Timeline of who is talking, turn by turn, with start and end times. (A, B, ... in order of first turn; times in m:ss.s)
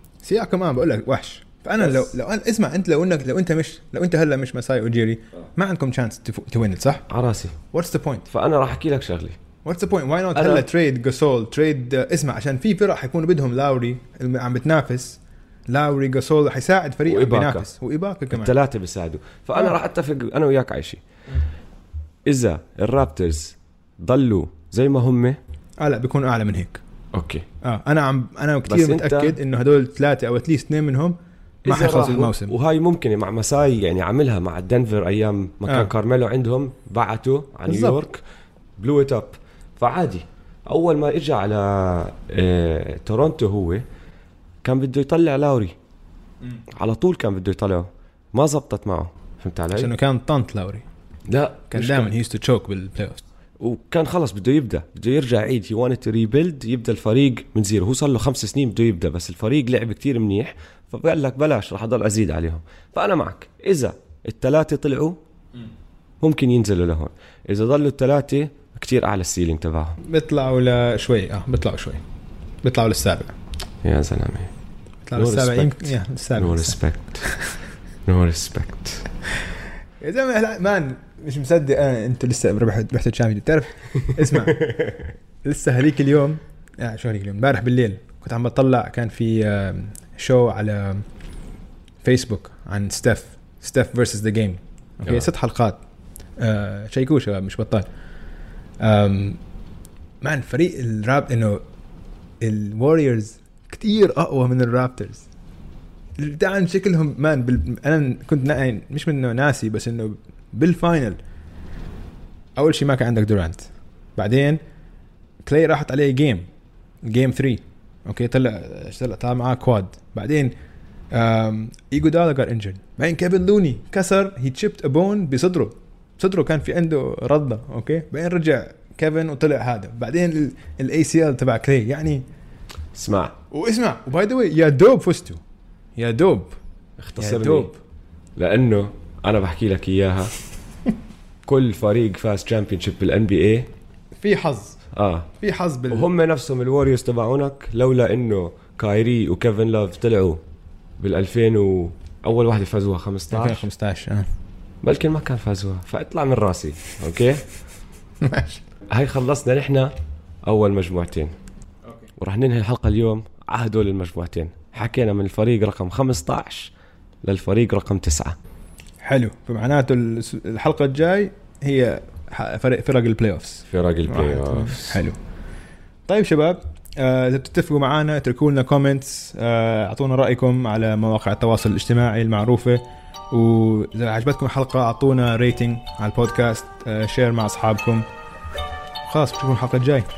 0:00.2-0:07.1 A
0:01.8-0:02.1 B
0:07.1-0:07.6 B
0:07.7-0:08.3 A
0:08.3-0:09.4 B
0:09.6-0:18.5 A
0:10.3-0:10.7 B
0:17.1-0:17.7 B
0:18.3-0:21.0 B
0:22.2-0:25.4 B
0:25.8-0:26.8 A
0:27.1-0:27.5 B
0:27.6-0:32.5 A
0:28.7-0:29.4 B
0:31.6-0:38.2 B
0:37.7-0:38.0 A
0:38.8-0:43.8 B
0:44.6-0:45.8 B
0:46.7-0:49.9 B
0:49.8-0:50.8 A
0:51.3-0:52.1 B
0:51.7-0:53.2 A
0:53.6-1:05.2 B
1:06.2-1:10.0 B
1:10.0-1:12.0 A
1:12.6-1:13.3 A
1:13.8-1:14.5 B
1:15.1-1:17.4 A
1:15.2-1:17.2 B
1:18.1-1:19.1 B
1:20.0-1:24.7 A
1:24.5-1:25.0 B
1:25.4-1:31.0 A
1:32.0-1:35.8 A
1:36.4-1:37.9 A
1:38.8-1:39.4 A
1:40.2-1:41.6 A
1:42.4-1:45.2 A
1:46.2-1:51.2 A
1:52.6-1:54.6 A
1:55.4-1:56.5 A
1:57.0-2:00.5 A
2:01.1-2:12.2 A
2:12.9-2:13.4 B
2:13.5-2:15.4 A
2:16.0-2:16.6 A
2:17.0-2:17.7 B
2:17.2-2:17.8 A
2:18.4-2:20.3 B
2:21.5-2:23.7 B
2:24.2-2:24.8 A
2:24.9-2:25.3 B
2:25.4-2:26.1 A
2:25.9-2:30.4 B
2:31.0-2:33.7 B
2:33.3-2:34.3 A
2:34.8-2:37.5 B
2:38.2-2:38.6 A
2:38.9-2:39.9 B
2:40.5-2:41.3 B
2:42.2-2:46.7 B
2:47.2-2:48.4 B
2:49.0-2:55.2 A
2:53.7-2:55.0 B
2:56.1-3:08.0 A
3:09.1-3:10.1 A